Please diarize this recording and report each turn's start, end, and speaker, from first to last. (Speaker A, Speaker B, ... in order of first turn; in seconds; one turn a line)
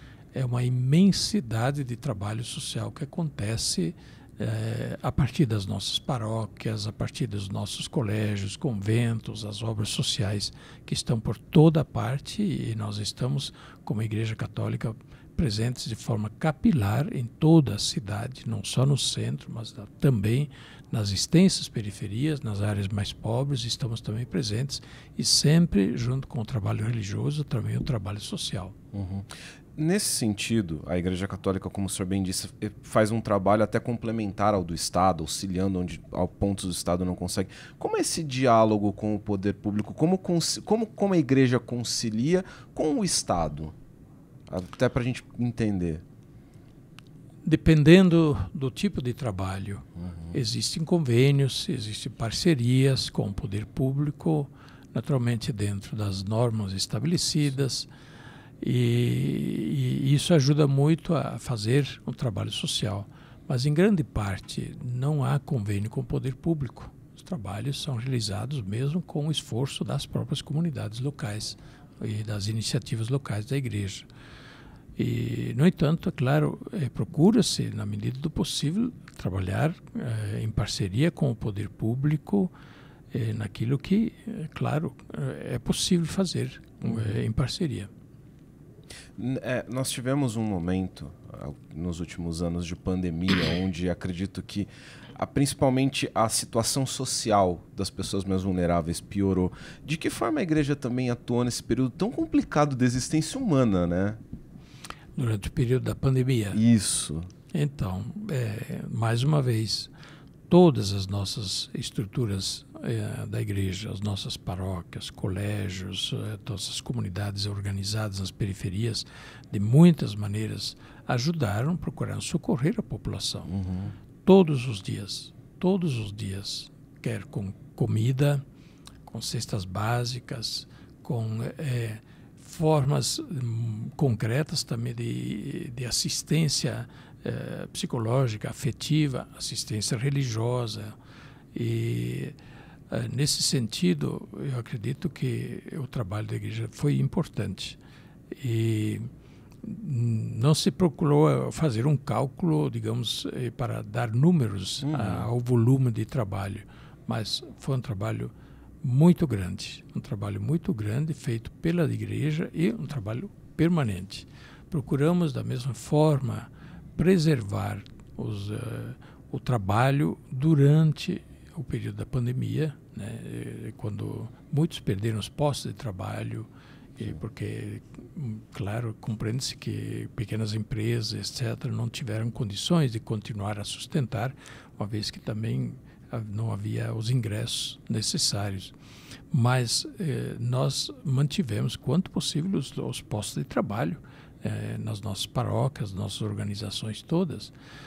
Speaker A: 0.3-28.7
Speaker B: 28.9-43.7
Speaker B: 44.5-46.0
Speaker A: 47.4-57.9
Speaker B: 50.0-50.3
Speaker A: 58.6-74.0
Speaker A: 75.0-82.5
Speaker A: 83.1-87.9
Speaker B: 86.8-87.1
Speaker B: 89.2-104.2
Speaker A: 105.1-106.6
Speaker B: 106.5-107.3
Speaker A: 107.5-109.9
Speaker A: 110.5-123.5
Speaker B: 123.5-123.9
Speaker A: 124.2-128.4
Speaker A: 129.1-140.9
Speaker A: 141.5-142.3
Speaker A: 142.9-147.8
Speaker A: 148.3-149.1
Speaker A: 149.6-188.7
Speaker B: 154.8-155.3
Speaker A: 189.3-197.5